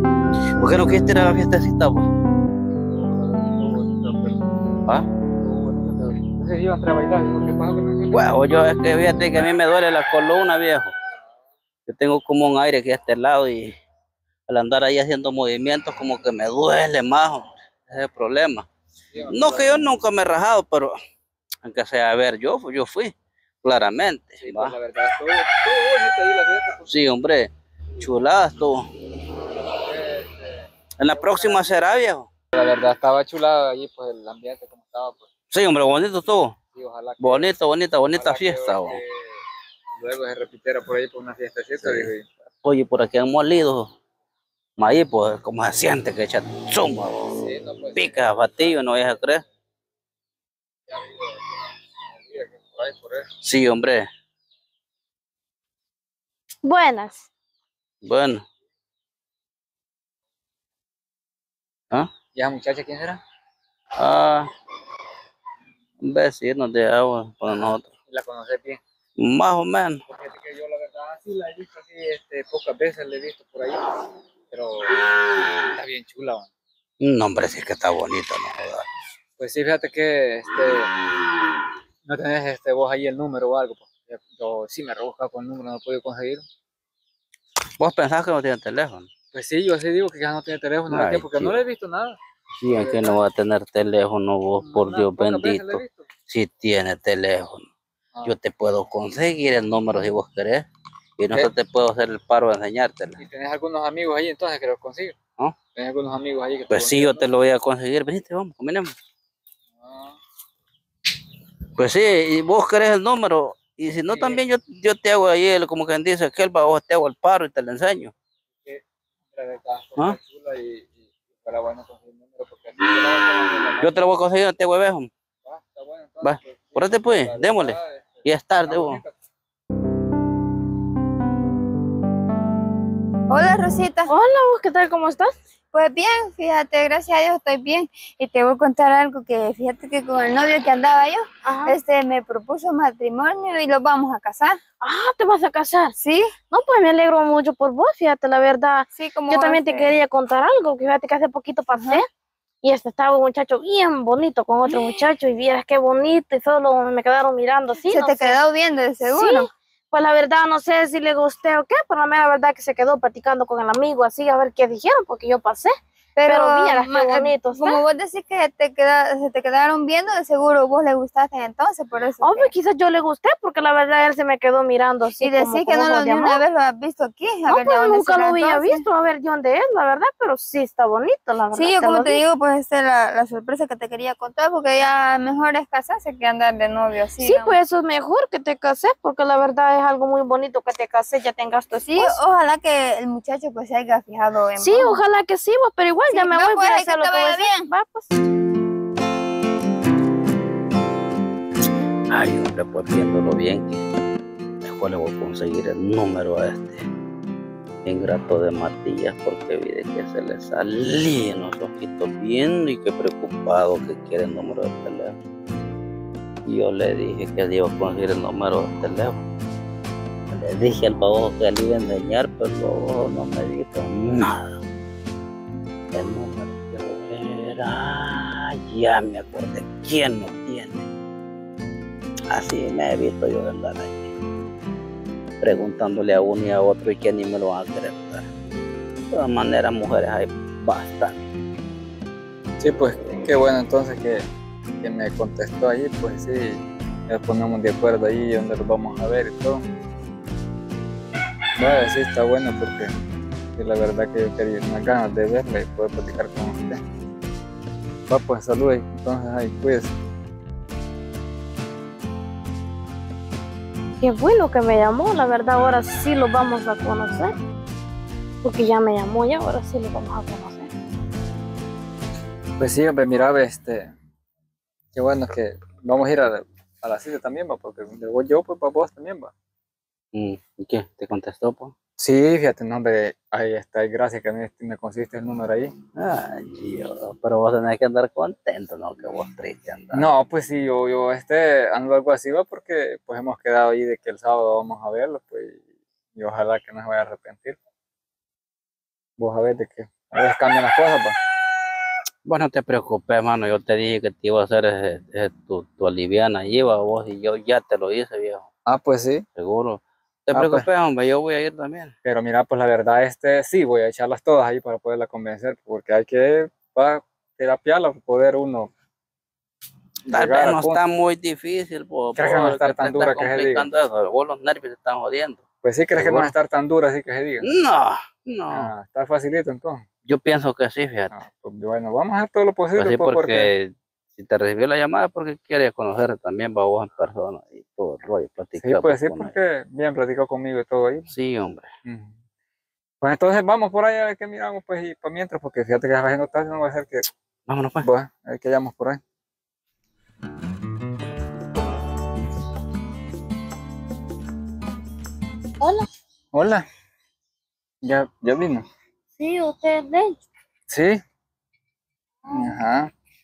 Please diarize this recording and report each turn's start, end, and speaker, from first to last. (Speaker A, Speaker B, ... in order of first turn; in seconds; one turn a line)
Speaker A: 0.6-2.0
Speaker B: 2.9-4.5
Speaker B: 5.4-8.3
Speaker A: 8.1-10.9
Speaker A: 11.9-13.7
Speaker A: 14.5-18.7
Speaker B: 19.1-19.9
Speaker A: 19.3-20.9
Speaker A: 21.6-24.8
Speaker B: 24.4-26.9
Speaker A: 26.8-28.9
Speaker B: 29.8-31.8
Speaker A: 31.0-32.3
Speaker B: 32.5-35.3
Speaker A: 35.5-36.5
Speaker B: 36.7-37.6
Speaker A: 37.2-39.0
Speaker B: 38.1-39.2
Speaker B: 40.0-42.3
Speaker A: 41.8-42.1
Speaker A: 42.6-43.9
Speaker A: 44.8-47.3
Speaker B: 47.3-49.3
Speaker A: 47.9-49.4
Speaker B: 50.9-53.3
Speaker A: 53.4-54.0
Speaker C: 56.6-57.3
Speaker A: 58.0-58.4
Speaker B: 62.3-63.2
Speaker A: 64.0-64.5
Speaker A: 66.0-67.9
Speaker B: 67.5-68.8
Speaker A: 69.2-70.0
Speaker B: 70.1-74.0
Speaker B: 74.5-75.0
Speaker B: 75.7-76.5
Speaker A: 77.0-78.8
Speaker B: 79.4-80.9
Speaker B: 82.1-86.4
Speaker A: 87.8-89.1
Speaker B: 89.3-93.2
Speaker A: 90.9-91.6
Speaker A: 92.6-97.7
Speaker B: 94.6-96.0
Speaker A: 98.2-100.7
Speaker A: 101.2-103.2
Speaker B: 103.2-105.2
Speaker B: 105.7-107.3
Speaker A: 106.7-108.9
Speaker B: 109.8-110.2
Speaker A: 111.8-118.1
Speaker B: 114.1-114.4
Speaker B: 119.3-124.0
Speaker A: 123.7-125.1
Speaker B: 125.4-129.1
Speaker A: 126.2-129.0
Speaker D: 133.3-134.1
Speaker C: 134.1-135.3
Speaker D: 135.7-144.6
Speaker C: 141.4-141.8
Speaker C: 144.8-145.9
Speaker D: 146.0-146.3
Speaker C: 146.5-152.1
Speaker D: 148.9-149.9
Speaker D: 151.8-152.0
Speaker C: 152.6-158.4
Speaker D: 154.7-155.0
Speaker D: 157.8-159.5
Speaker C: 159.0-165.7
Speaker D: 166.2-172.5
Speaker C: 166.2-167.8
Speaker C: 172.2-176.4
Speaker D: 175.2-178.8
Speaker C: 177.5-182.2
Speaker D: 181.5-187.6
Speaker C: 187.2-192.2
Speaker D: 191.9-195.0
Speaker C: 194.6-198.1
Speaker D: 196.1-197.7
Speaker A: 202.1-203.8
Speaker A: 204.6-206.8
Speaker A: 207.8-215.1
Speaker A: 216.4-219.2
Speaker A: 220.3-224.5
Speaker A: 225.9-230.9
Speaker A: 232.3-234.1
Speaker A: 235.4-238.2
Speaker A: 239.1-241.1
Speaker B: 242.6-244.2
Speaker B: 244.8-249.6
Speaker B: 251.6-252.9
Speaker B: 253.6-256.8
Speaker B: 258.1-259.9
Speaker C: 264.0-267.3
Speaker C: 268.4-270.7
Speaker B: 272.6-273.9
Speaker B: 274.9-279.3
Speaker A: 280.1-281.7
Speaker B: 282.0-285.7
Speaker A: 285.9-290.1
Speaker B: 289.9-295.6
Speaker B: 296.1-297.6
Speaker B: 299.2-301.1
Speaker A: 302.2-308.5
Speaker B: 308.7-309.2
Speaker A: 309.4-311.9
Speaker B: 310.3-310.7
Speaker B: 312.0-318.7
Speaker B: 320.1-320.8
Speaker A: 320.1-326.3
Speaker B: 322.1-323.7
Speaker B: 325.6-327.5
Speaker A: 327.4-328.7
Speaker B: 328.5-329.8
Speaker A: 330.1-331.1
Speaker B: 331.1-333.5
Speaker A: 332.8-339.3
Speaker B: 338.6-341.1
Speaker A: 341.1-341.7
Speaker B: 341.8-342.1
Speaker B: 343.0-347.0
Speaker A: 347.5-347.9
Speaker B: 347.8-349.0
Speaker C: 355.6-355.9
Speaker B: 356.3-356.6
Speaker B: 357.8-358.6
Speaker C: 359.1-360.2
Speaker B: 360.7-361.0
Speaker C: 362.2-362.6
Speaker B: 362.3-362.9